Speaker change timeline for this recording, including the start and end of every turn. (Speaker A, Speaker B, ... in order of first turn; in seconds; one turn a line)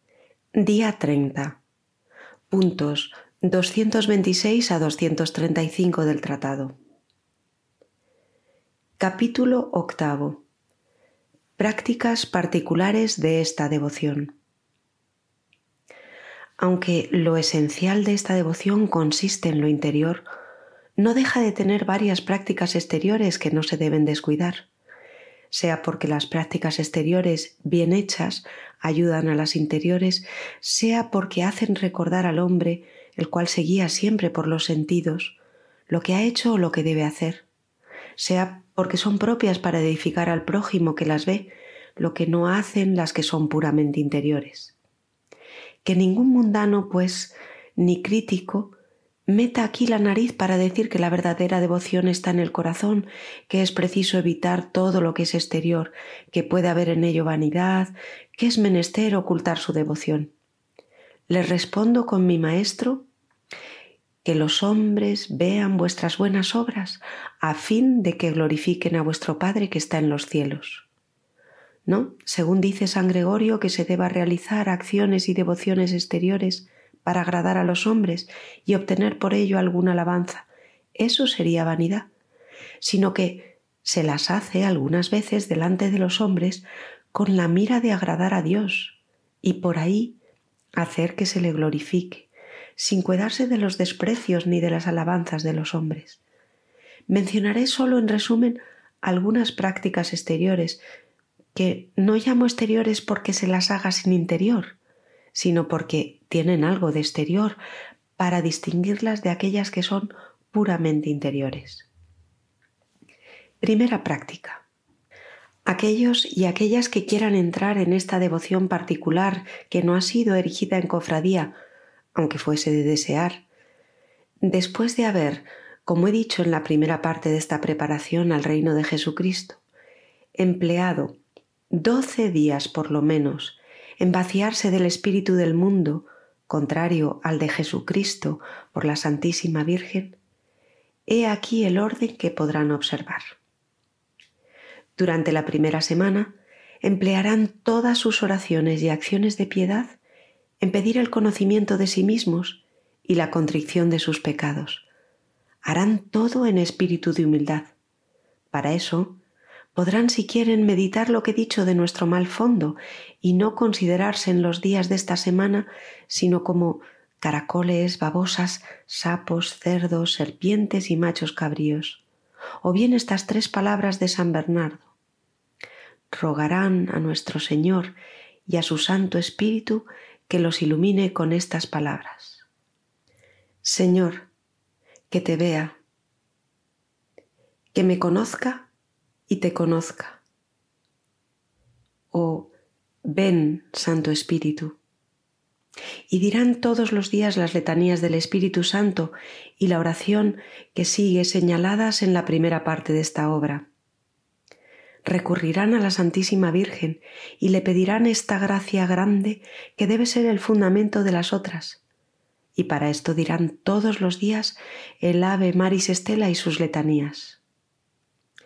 Speaker A: 0.6-1.6
Speaker A: 2.5-6.7
Speaker A: 9.0-10.4
Speaker A: 11.6-14.3
Speaker A: 16.6-20.3
Speaker A: 21.0-24.7
Speaker A: 25.5-35.4
Speaker A: 35.9-37.5
Speaker A: 38.2-44.8
Speaker A: 45.8-48.8
Speaker A: 49.3-60.3
Speaker A: 61.3-63.1
Speaker A: 64.2-70.9
Speaker A: 71.9-82.1
Speaker A: 82.8-90.2
Speaker A: 90.8-96.2
Speaker A: 97.1-100.8
Speaker A: 101.5-104.8
Speaker A: 105.3-107.6
Speaker A: 108.2-111.9
Speaker A: 113.6-114.6
Speaker A: 115.7-121.6
Speaker A: 122.2-123.4
Speaker A: 124.4-129.6
Speaker A: 130.4-131.2
Speaker A: 131.7-140.2
Speaker A: 141.1-143.2
Speaker A: 145.0-150.0
Speaker A: 150.6-154.8
Speaker A: 155.6-157.7
Speaker A: 158.5-159.2
Speaker A: 159.8-172.0
Speaker A: 172.6-174.9
Speaker A: 176.1-182.4
Speaker A: 183.6-184.3
Speaker A: 185.1-185.8
Speaker A: 187.7-188.7
Speaker A: 189.3-190.2
Speaker A: 192.1-192.5
Speaker A: 193.1-194.8
Speaker A: 196.1-203.7
Speaker A: 205.1-211.8
Speaker A: 212.6-217.4